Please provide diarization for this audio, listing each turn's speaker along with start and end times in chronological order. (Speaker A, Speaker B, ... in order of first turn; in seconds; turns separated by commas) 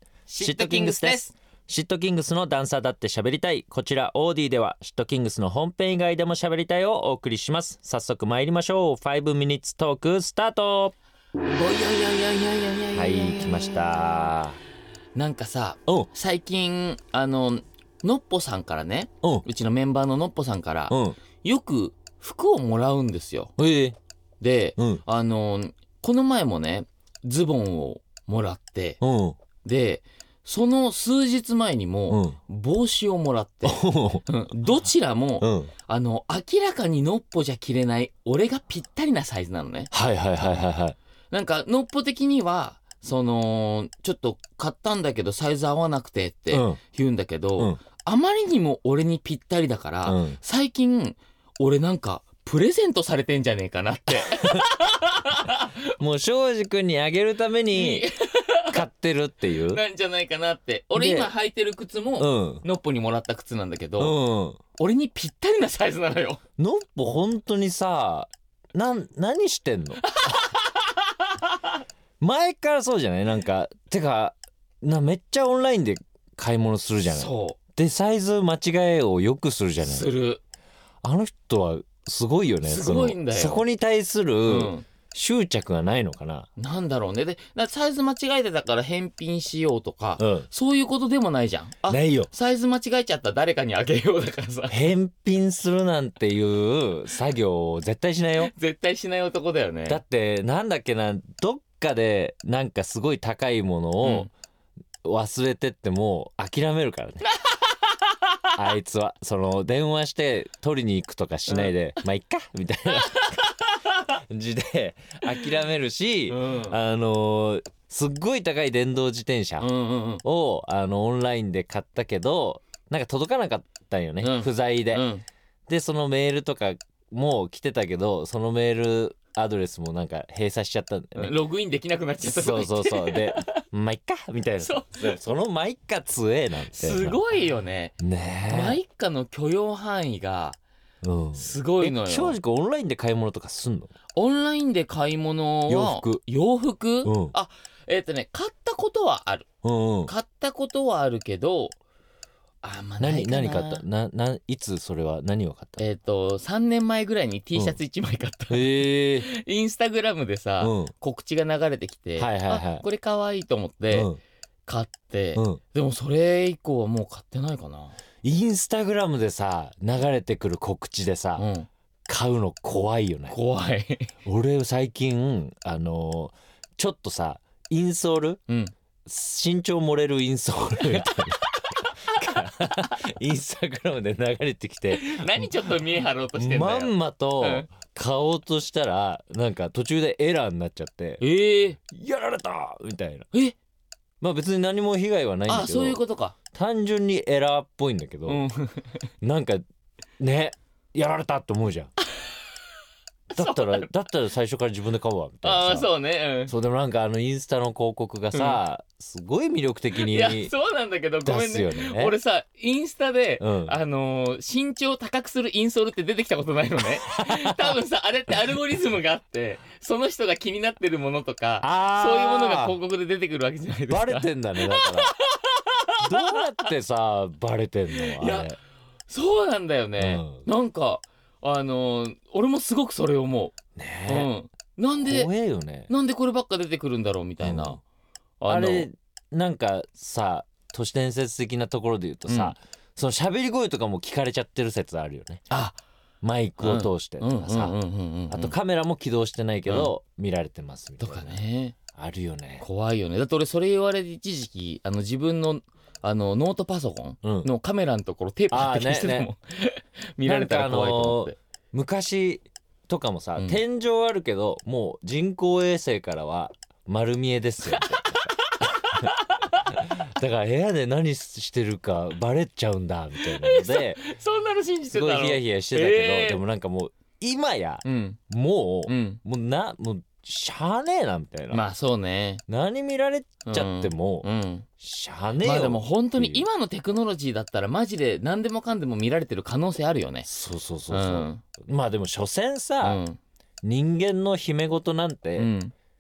Speaker A: 0.3-1.3, Speaker B: 0.4-10.9, Speaker A: 11.5-14.3, Speaker B: 12.9-14.6, Speaker A: 15.2-23.5, Speaker B: 20.9-21.2, Speaker B: 23.6-24.0, Speaker A: 24.4-29.0, Speaker B: 24.8-25.0, Speaker B: 29.0-29.4, Speaker A: 29.6-39.9, Speaker B: 32.1-32.4, Speaker B: 33.6-34.3, Speaker B: 35.4-35.7, Speaker B: 39.9-41.0, Speaker A: 41.3-55.8, Speaker B: 46.5-46.8, Speaker B: 50.1-50.4, Speaker B: 56.0-58.1, Speaker A: 57.7-58.8, Speaker B: 58.7-59.8, Speaker A: 59.5-64.2, Speaker B: 61.0-61.3, Speaker B: 62.2-62.6, Speaker B: 64.0-64.6, Speaker A: 64.8-66.4, Speaker B: 66.6-70.0, Speaker A: 70.0-71.6, Speaker B: 72.2-80.1, Speaker A: 77.1-77.6, Speaker A: 79.8-80.4, Speaker B: 81.0-86.5, Speaker A: 82.6-83.6, Speaker A: 84.5-84.9, Speaker A: 86.6-94.8, Speaker B: 90.2-90.5, Speaker B: 91.9-92.3, Speaker B: 94.7-98.5, Speaker A: 98.4-100.0, Speaker B: 99.9-104.3, Speaker A: 104.0-104.3, Speaker B: 105.0-107.3, Speaker A: 107.2-108.2, Speaker B: 108.6-113.3, Speaker A: 111.5-111.7, Speaker A: 113.0-114.0, Speaker B: 114.3-119.7, Speaker A: 116.3-116.8, Speaker A: 119.6-120.2, Speaker B: 120.2-125.1, Speaker A: 124.2-125.2, Speaker B: 125.7-131.3, Speaker A: 131.2-133.6, Speaker B: 132.2-137.2, Speaker A: 134.6-135.2, Speaker A: 136.7-140.6, Speaker B: 138.0-138.8, Speaker B: 141.0-143.9, Speaker A: 141.3-142.4, Speaker A: 144.2-149.5, Speaker B: 145.7-146.2, Speaker B: 147.1-147.3, Speaker B: 149.6-150.1, Speaker A: 150.1-151.8, Speaker A: 152.6-153.8, Speaker B: 153.0-155.9, Speaker A: 155.8-164.1, Speaker B: 158.5-159.3, Speaker B: 160.6-160.9, Speaker B: 162.2-162.8, Speaker B: 163.9-164.2, Speaker A: 164.7-168.0, Speaker B: 168.2-171.5, Speaker A: 171.4-171.7, Speaker B: 172.1-173.4, Speaker A: 173.3-174.1, Speaker B: 174.2-178.4, Speaker A: 178.5-178.7, Speaker B: 179.1-181.4, Speaker A: 181.0-181.6, Speaker B: 182.2-185.5, Speaker A: 182.2-182.7, Speaker A: 184.9-187.7, Speaker B: 186.3-191.2, Speaker A: 191.2-191.8, Speaker B: 191.9-193.3, Speaker B: 194.2-198.4, Speaker A: 195.5-196.4, Speaker A: 198.3-199.0, Speaker B: 199.2-199.6, Speaker B: 200.2-201.9, Speaker A: 203.3-203.9, Speaker B: 203.3-205.9, Speaker A: 205.4-206.5, Speaker B: 206.4-210.5, Speaker A: 208.3-208.6, Speaker A: 210.0-226.4, Speaker B: 211.2-212.2, Speaker B: 213.4-213.8, Speaker B: 217.1-217.8, Speaker B: 221.6-222.8, Speaker B: 223.9-225.1, Speaker B: 226.0-228.6, Speaker A: 227.9-228.5, Speaker A: 229.1-235.3, Speaker B: 230.0-230.4, Speaker B: 233.8-234.3, Speaker B: 235.0-235.9, Speaker A: 235.9-237.8, Speaker B: 237.4-237.8, Speaker A: 238.4-238.9, Speaker B: 238.4-245.4, Speaker A: 242.3-242.6, Speaker A: 245.5-245.8, Speaker B: 246.2-247.8, Speaker A: 246.6-248.6, Speaker B: 248.3-251.4, Speaker A: 249.7-249.9, Speaker A: 251.0-251.8, Speaker B: 251.9-252.7, Speaker A: 252.6-261.4, Speaker B: 257.2-257.5, Speaker B: 258.5-259.3, Speaker B: 260.2-269.1, Speaker A: 263.4-263.6, Speaker A: 267.7-269.6, Speaker B: 269.7-274.0, Speaker A: 273.2-276.4, Speaker B: 274.9-281.6, Speaker A: 277.8-278.2, Speaker A: 278.9-279.2, Speaker A: 281.5-282.4, Speaker B: 282.5-284.3, Speaker A: 283.5-284.7, Speaker B: 284.8-286.5, Speaker A: 285.4-290.3, Speaker B: 290.2-293.0, Speaker A: 290.9-291.4, Speaker A: 292.8-293.2, Speaker B: 293.6-295.5, Speaker A: 295.4-295.7